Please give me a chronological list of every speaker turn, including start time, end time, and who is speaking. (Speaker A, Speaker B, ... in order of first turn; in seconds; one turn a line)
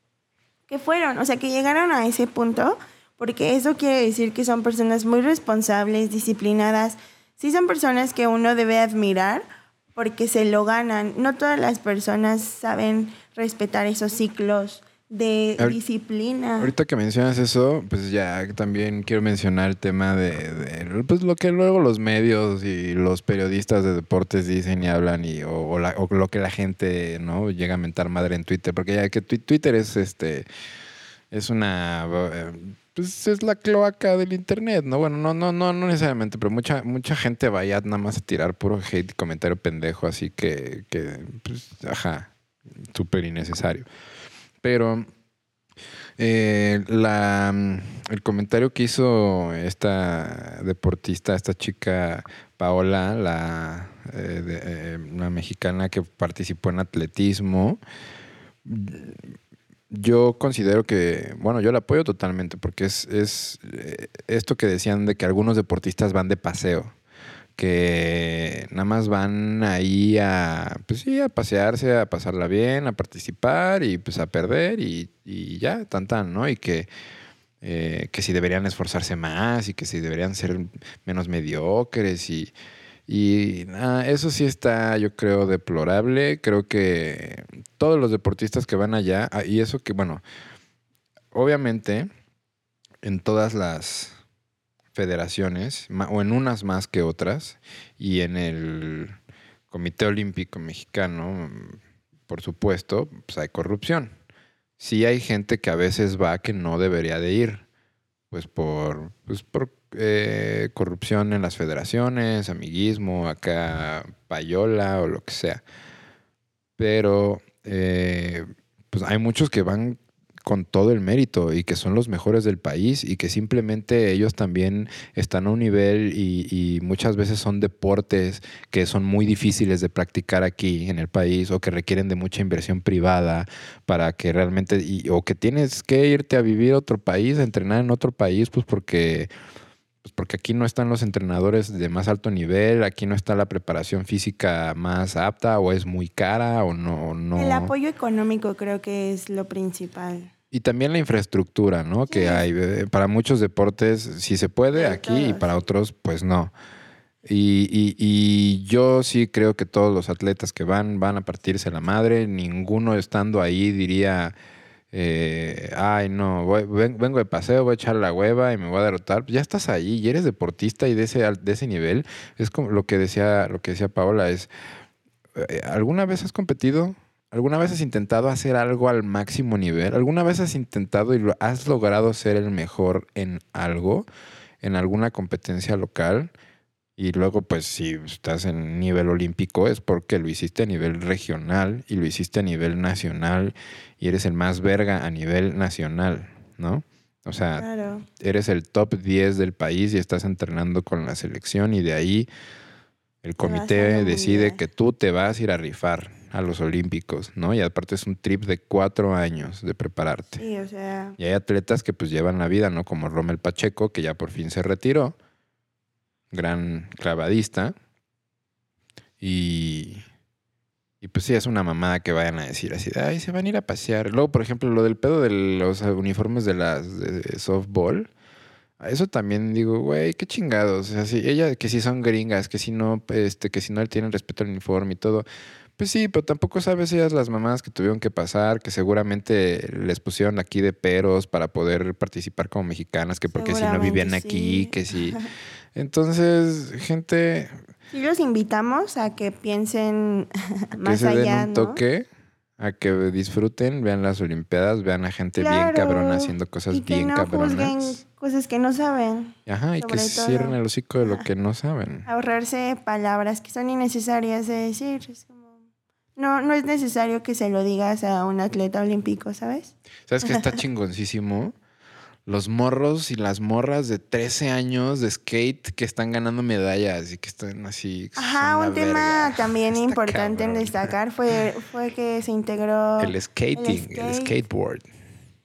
Speaker A: 0.7-9.4
Speaker A: 9.9-16.7
Speaker B: 16.6-30.4
Speaker B: 31.3-42.3
Speaker B: 42.9-43.9
Speaker B: 44.6-45.1
Speaker B: 46.2-57.8
Speaker B: 58.6-59.3
Speaker B: 59.9-66.9
Speaker B: 67.6-76.9
Speaker B: 77.6-82.5
Speaker B: 83.1-90.2
Speaker B: 91.3-92.1
Speaker B: 93.0-94.2
Speaker B: 94.9-99.2
Speaker B: 99.7-104.2
Speaker B: 104.8-107.6
Speaker B: 108.3-115.6
Speaker B: 116.8-139.3
Speaker B: 140.0-147.7
Speaker A: 147.3-150.3
Speaker B: 150.5-156.5
Speaker A: 152.1-152.4
Speaker A: 154.7-155.5
Speaker B: 157.2-164.3
Speaker B: 164.9-174.5
Speaker B: 175.3-184.1
Speaker B: 184.6-186.3
Speaker B: 187.0-197.7
Speaker A: 197.6-198.1
Speaker B: 198.2-202.3
Speaker B: 203.2-210.4
Speaker A: 203.4-204.6
Speaker A: 210.4-211.2
Speaker B: 211.2-215.2
Speaker B: 216.3-217.7
Speaker B: 219.2-220.0
Speaker B: 221.0-228.1
Speaker B: 228.8-235.2
Speaker B: 235.8-245.2
Speaker A: 243.3-245.3
Speaker B: 245.7-247.6
Speaker A: 247.9-251.8
Speaker B: 250.8-252.1
Speaker B: 252.6-258.0
Speaker A: 255.4-261.3
Speaker B: 259.4-262.1
Speaker A: 262.1-265.6
Speaker A: 266.2-270.6
Speaker B: 270.1-271.5
Speaker B: 272.2-280.9
Speaker A: 278.1-284.4
Speaker B: 283.0-284.9